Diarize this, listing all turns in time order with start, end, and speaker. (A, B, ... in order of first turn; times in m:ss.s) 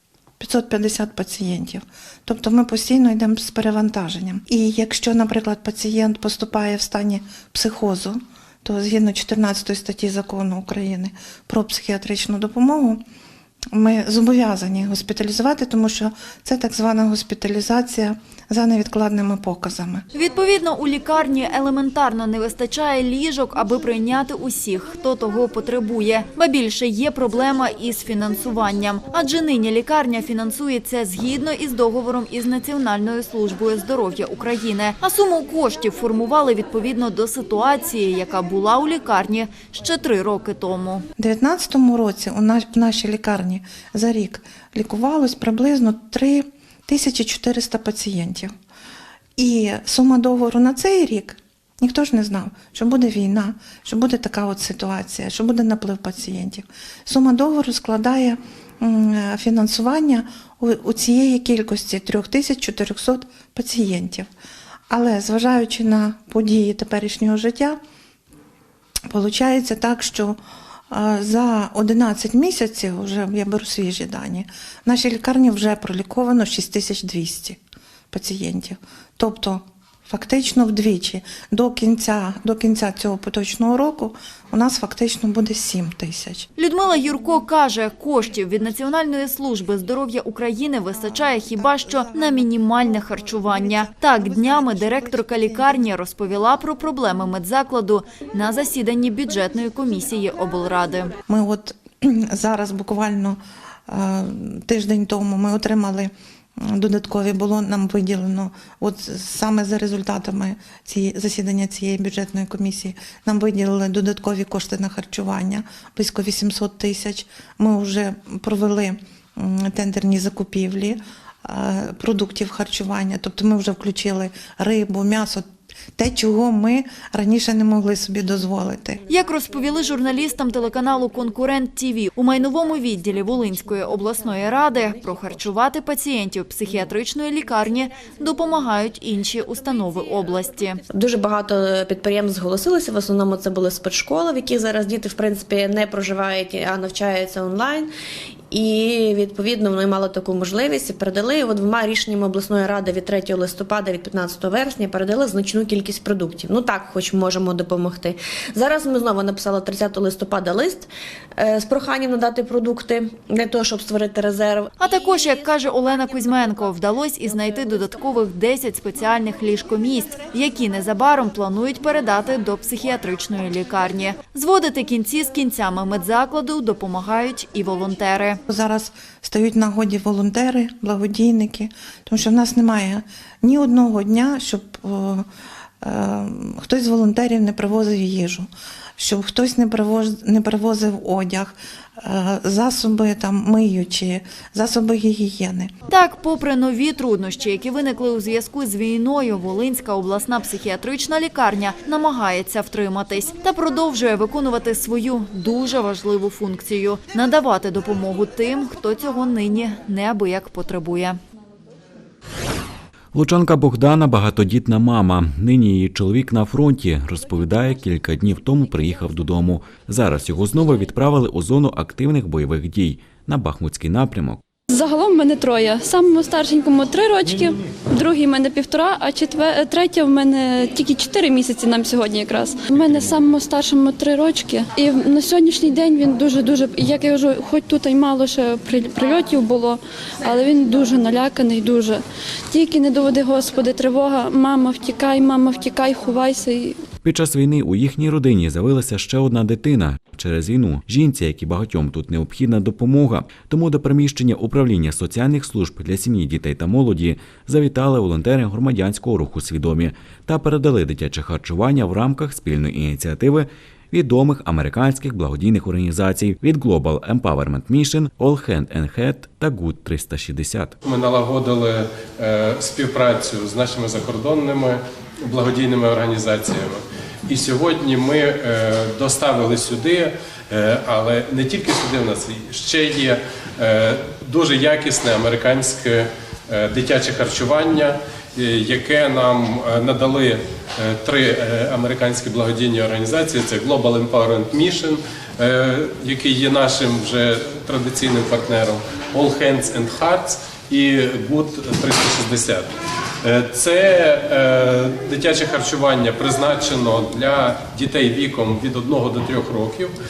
0:00.4-0:13.0 A
0:13.7-0:20.0 A
0:20.1-0:41.0 B
0:41.2-0:48.5 A
0:49.4-1:04.3 A
1:04.9-1:07.8 A
1:09.1-1:10.4 A
1:10.9-1:17.6 A
1:18.1-1:26.5 A
1:26.6-1:41.1 B
1:30.9-1:35.8 A
1:41.3-2:09.0 A
2:09.1-2:20.8 B
2:20.9-2:27.9 C
2:28.5-2:44.7 C
2:44.8-2:58.4 B
2:58.5-3:05.3 A
3:05.8-3:15.7 A
3:15.9-3:31.2 B
3:33.1-3:44.4 D
3:44.7-4:06.8 E
4:07.0-4:30.8 D
4:30.8-5:02.7 F
5:03.2-5:09.9 F